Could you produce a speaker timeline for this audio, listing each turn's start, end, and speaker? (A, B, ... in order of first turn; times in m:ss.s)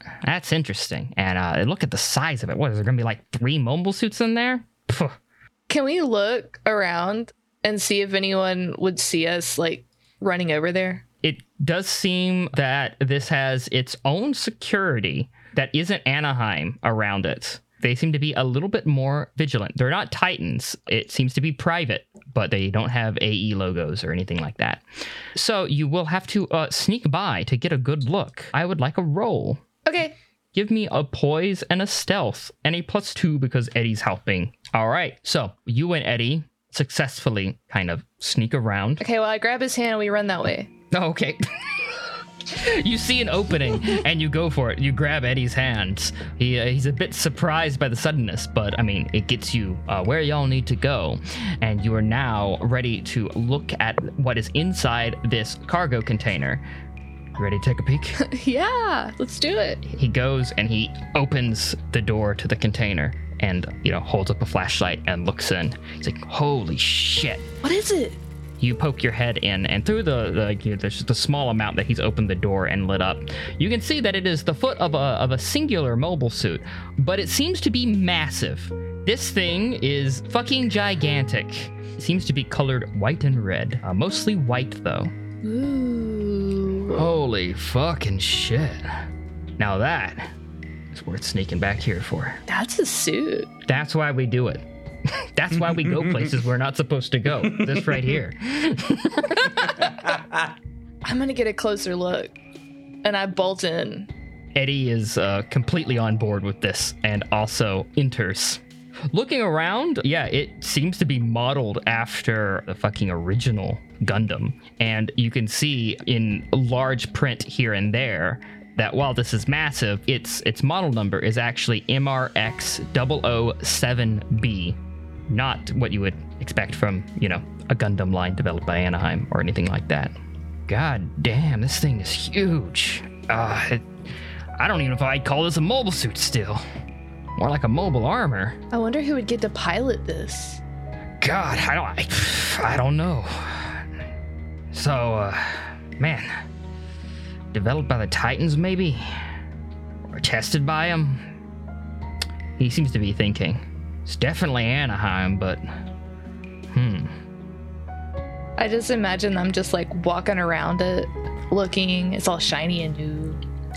0:00.2-0:05.2 A
0:05.7-0:11.0 B
0:11.2-0:24.8 A
0:25.3-0:29.6 A
0:29.8-0:30.1 B
0:30.5-0:39.0 A
0:39.0-0:40.7 B
0:40.9-0:41.4 A
0:42.5-0:56.6 A
0:57.4-0:58.2 A
0:58.2-0:59.8 B
0:59.8-1:07.4 A
1:07.6-1:08.2 B
1:08.6-1:25.1 A
1:25.4-1:27.1 B
1:26.9-1:29.0 A
1:29.6-1:30.3 A
1:30.9-1:32.4 A
1:32.5-1:33.5 B
1:33.7-1:39.9 A
1:41.0-1:42.3 B
1:43.0-1:44.1 B
1:44.5-2:04.8 A
2:05.3-2:10.1 A
2:10.7-2:13.8 A
2:14.6-2:16.6 A
2:17.4-2:18.6 A
2:18.7-2:20.6 B
2:21.2-2:23.8 A
2:24.7-2:26.3 A
2:27.5-2:29.0 A
2:30.1-2:31.2 A
2:32.6-2:35.6 A
2:36.7-2:37.1 A
2:38.6-2:43.4 B